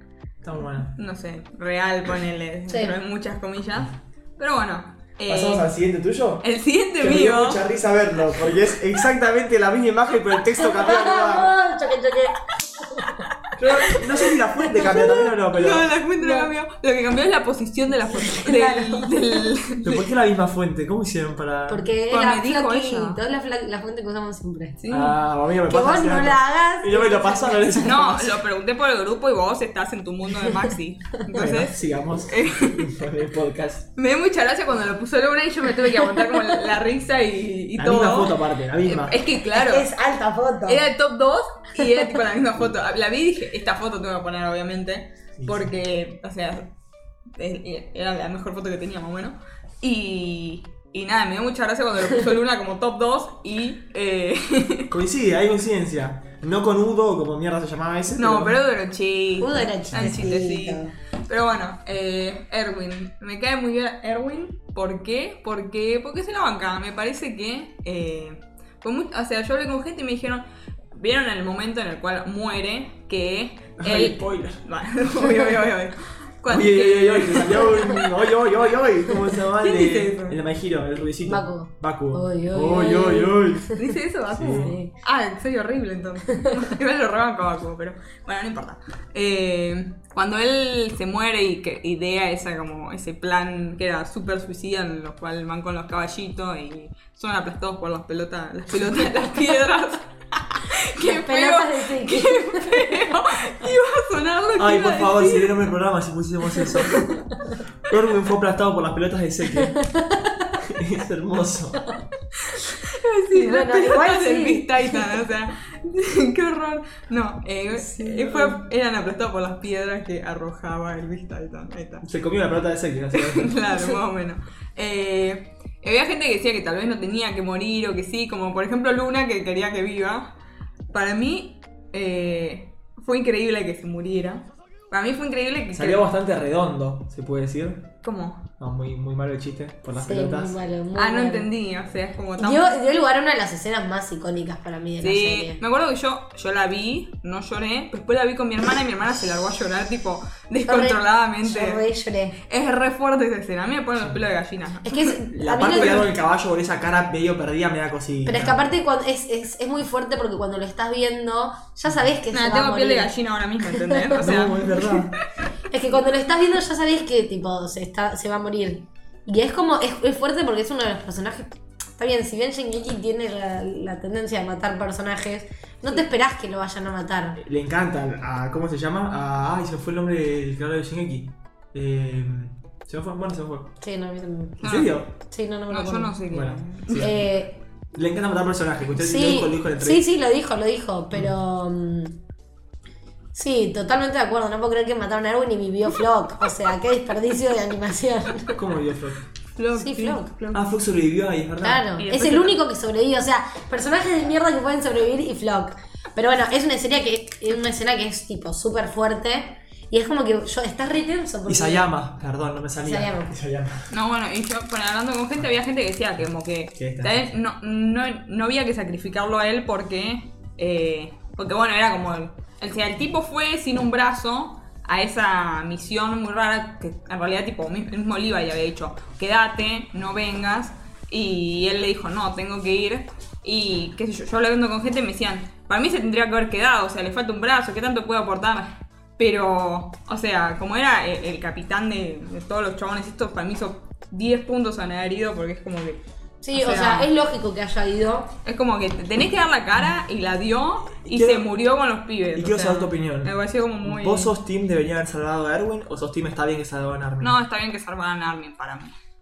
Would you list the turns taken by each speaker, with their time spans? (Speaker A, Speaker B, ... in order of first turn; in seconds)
Speaker A: 0.4-0.9, 5.3-6.5, 7.0-11.5, 13.6-15.9, 19.8-21.9, 24.9-28.3, 31.3-33.9, 37.8-39.2, 45.4-45.7, 54.9-58.6, 59.9-60.4, 73.8-74.6, 76.5-83.7, 84.3-84.8, 104.6-107.2, 107.9-109.8, 110.6-111.9, 122.0-123.6, 135.7-137.9, 138.6-140.6, 155.3-158.6, 164.2-165.2, 177.4-183.7, 184.6-185.1, 186.3-187.3, 187.9-190.0, 198.5-199.2, 200.5-201.9, 211.4-213.9, 216.7-217.3, 251.0-251.5, 252.3-257.4
Speaker B: 0.9-5.7, 6.4-7.6, 14.9-20.1, 22.1-23.2, 24.8-25.1, 27.8-32.9, 34.0-39.9, 40.6-46.7, 47.3-54.9, 58.2-78.0, 79.5-80.4, 83.8-105.7, 106.8-107.2, 112.4-122.0, 123.1-130.3, 130.9-136.1, 138.0-138.4, 140.9-142.8, 145.0-151.8, 152.4-155.2, 162.3-165.2, 184.6-184.9, 185.7-187.1, 199.6-200.6, 202.0-202.6, 213.9-246.0, 246.5-247.1, 248.4-254.3, 257.2-258.9
Speaker C: 2.7-3.0, 10.6-13.2, 14.6-15.2, 16.2-16.5, 18.1-19.4, 21.7-24.8, 25.6-28.3, 39.5-40.8, 59.4-60.9, 81.2-83.8, 84.5-84.9, 101.0-103.1, 109.7-110.5, 113.3-115.2, 117.7-118.6, 139.9-141.5, 142.4-145.6, 150.6-152.4, 154.8-156.1, 158.2-163.1, 163.6-164.2, 165.7-177.4, 183.8-184.6, 185.2-186.2, 186.9-187.6, 188.9-192.2, 193.3-198.6, 199.7-200.3, 201.6-211.9, 212.8-213.3, 246.4-248.3